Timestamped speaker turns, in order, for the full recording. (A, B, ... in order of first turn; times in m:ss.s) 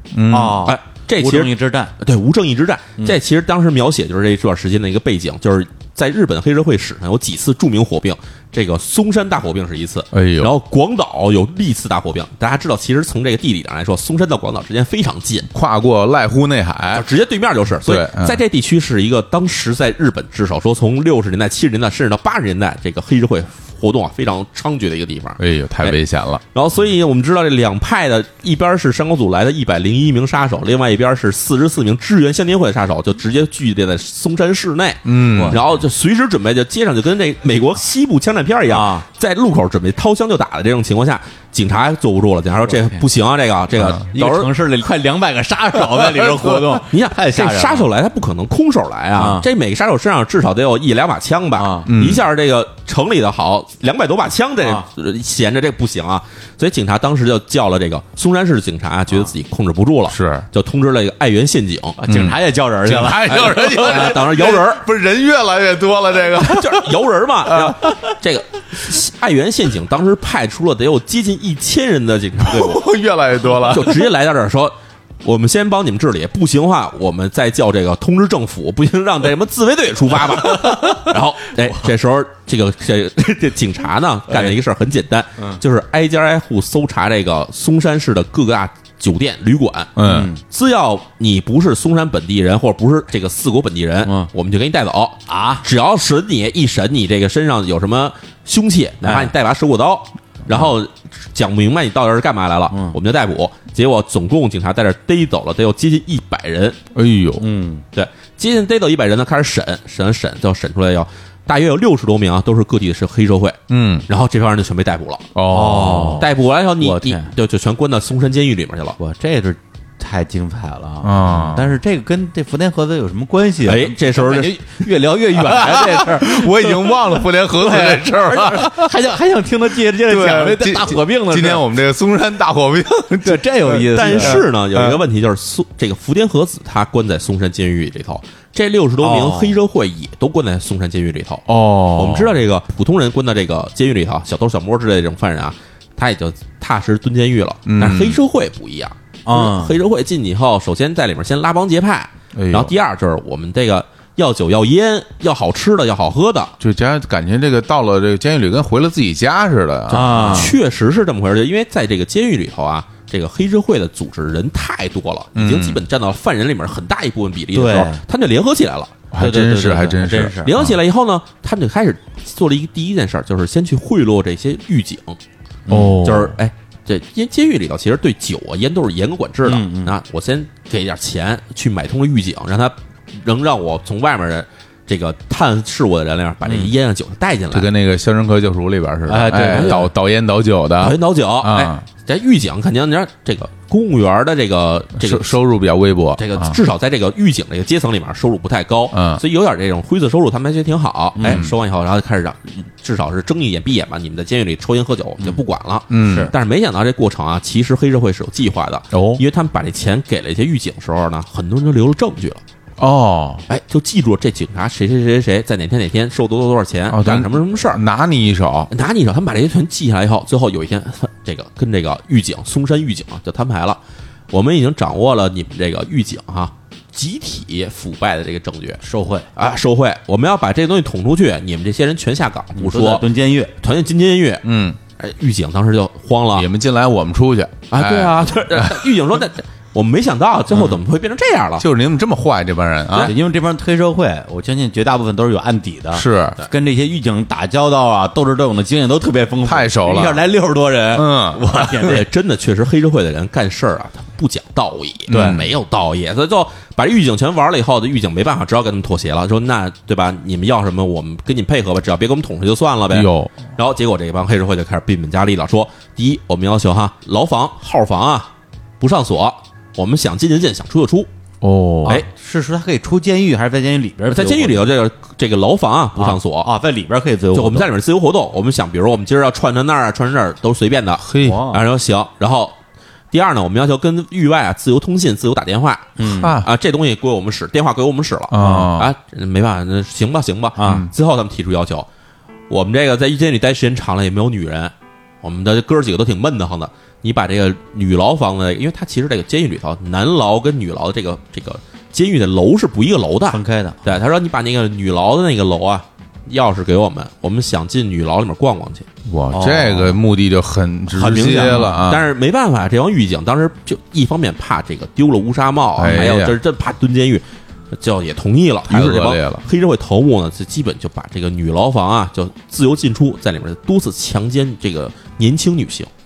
0:00.1-0:00.7 A
0:00.3-0:01.9 B
0:00.6-0:15.5 C
0:10.1-0:10.5 A
0:15.5-0:17.1 A
0:16.9-0:26.0 C
0:17.8-0:18.4 A
0:25.4-0:26.4 A
0:26.5-0:44.5 C
0:35.0-0:35.6 A
0:35.3-0:35.6 B
0:38.7-0:39.1 B
0:42.6-0:43.0 B
0:44.0-0:47.9 B
0:46.9-1:02.0 C
0:49.2-0:49.4 B
0:51.6-0:51.9 B
0:51.9-0:52.3 A
0:54.6-0:54.9 B
1:00.1-1:00.5 A
1:02.0-1:04.2 B
1:02.1-1:06.9 A
1:03.3-1:04.8 C
1:06.4-1:12.8 C
1:07.4-1:08.0 A
1:12.4-1:14.1 A
1:13.6-1:46.8 C
1:30.0-1:30.3 A
1:30.0-1:30.4 B
1:35.3-1:35.6 B
1:39.0-1:39.3 B
1:42.7-1:43.0 B
1:46.9-1:47.4 A
1:47.4-1:47.8 B
1:47.9-1:55.3 C
1:53.7-1:54.1 A
1:55.4-1:56.3 A
1:55.5-1:56.3 B
1:56.2-1:59.0 C
1:56.8-1:57.3 B
1:59.0-2:11.6 B
2:01.0-2:01.8 A
2:03.6-2:04.6 C
2:05.4-2:08.9 A
2:10.0-2:15.0 A
2:13.2-2:14.4 B
2:13.9-2:36.5 C
2:19.0-2:19.6 B
2:21.5-2:22.4 A
2:27.6-2:28.2 A
2:29.3-2:29.8 B
2:32.4-2:32.7 A
2:36.6-2:40.5 A
2:39.9-2:40.5 B
2:40.2-2:49.0 C
2:45.4-2:45.8 A
2:47.5-2:48.0 B
2:49.1-2:50.8 A
2:49.2-2:50.5 B
2:50.4-2:55.2 C
2:55.7-2:56.0 B
2:55.7-2:56.4 A
2:56.0-3:07.7 C
2:59.4-3:00.0 B
3:06.4-3:06.7 B
3:07.5-3:11.8 A
3:09.1-3:09.9 B
3:09.4-3:09.9 C
3:10.8-3:15.4 C
3:15.0-3:16.6 A
3:16.2-3:32.4 C
3:18.9-3:19.2 A
3:21.2-3:21.4 B
3:21.3-3:21.5 A
3:25.9-3:26.3 A
3:26.0-3:26.3 B
3:28.9-3:29.2 A
3:32.8-3:33.4 A
3:33.5-3:37.8 C
3:36.9-3:38.7 A
3:38.7-3:43.8 C
3:44.3-3:48.8 C
3:48.8-3:49.3 B
3:49.4-3:53.1 C
3:52.6-3:53.5 B
3:53.6-3:54.4 C
3:54.4-3:54.8 A
3:55.0-3:56.5 C
3:56.3-3:58.9 A
3:57.7-4:01.6 C
4:01.6-4:03.1 A
4:03.0-4:12.1 B
4:05.9-4:06.4 A
4:09.4-4:10.2 A
4:10.9-4:11.6 A
4:11.6-4:31.1 C
4:15.1-4:15.5 A
4:15.1-4:15.4 B
4:22.9-4:23.4 A
4:31.4-4:32.0 A
4:31.8-4:34.7 B
4:34.1-4:36.5 C
4:36.0-4:37.7 B
4:37.3-4:42.6 C
4:41.0-4:41.4 A
4:41.2-4:41.6 B
4:43.1-4:51.9 C
4:46.0-4:46.4 B
4:46.0-4:46.5 A
4:48.3-4:48.9 A
4:48.4-4:48.7 B
4:50.6-4:50.9 B
4:50.6-4:50.9 A
4:52.5-5:08.9 C
5:03.3-5:03.9 B
5:09.1-5:12.1 A
5:09.3-5:10.0 B
5:10.9-5:25.9 C
5:11.4-5:11.8 B
5:15.8-5:16.4 A
5:18.7-5:19.4 A